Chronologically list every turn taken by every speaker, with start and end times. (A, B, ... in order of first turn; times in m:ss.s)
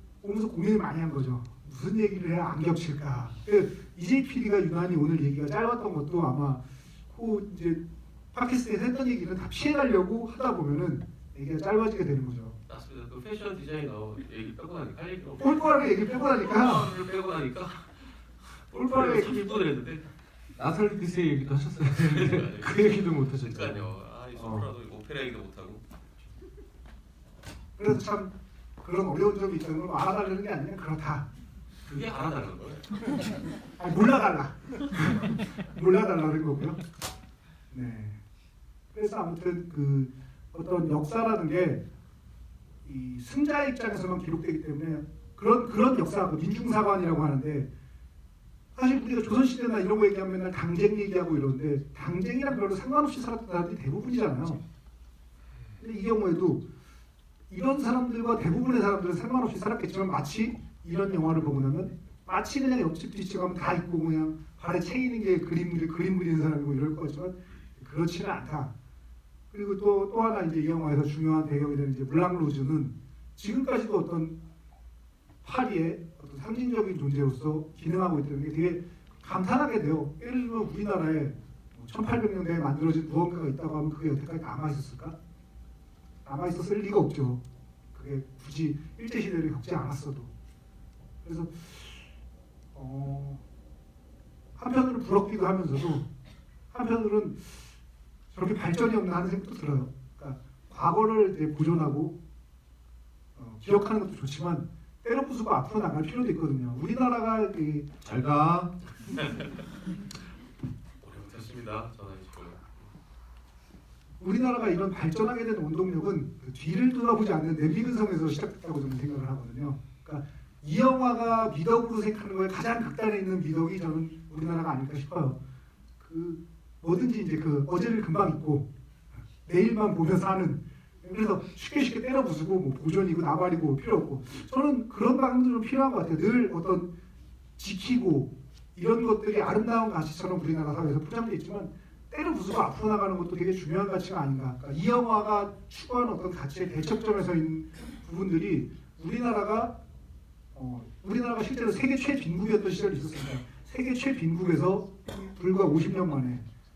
0:00.2-0:12.6 A
0:12.7-0:20.0 B
0:15.4-0:16.9 A
0:18.9-0:19.4 A
0:20.6-0:24.7 C
0:21.9-0:25.8 B
0:27.8-0:31.3 A
0:31.8-0:33.0 B
0:33.8-0:36.8 A
0:37.7-0:38.2 A
0:38.9-0:41.8 A
0:42.8-0:47.7 A
0:48.8-0:54.6 A
0:55.8-0:56.6 A
0:57.5-1:08.7 A
1:09.5-1:14.4 A
1:15.4-1:25.2 A
1:26.2-1:27.4 A
1:27.9-1:30.3 A
1:31.2-1:32.1 A
1:32.7-1:33.4 A
1:34.6-1:36.1 A
1:36.7-1:37.8 A
1:38.3-1:42.2 A
1:43.4-1:47.9 A
1:48.0-1:48.7 C
1:48.8-1:49.7 B
1:51.0-1:52.9 B
1:54.2-2:05.4 A
2:06.0-2:08.7 A
2:09.4-2:16.9 A
2:17.6-2:29.7 A
2:30.5-2:36.5 A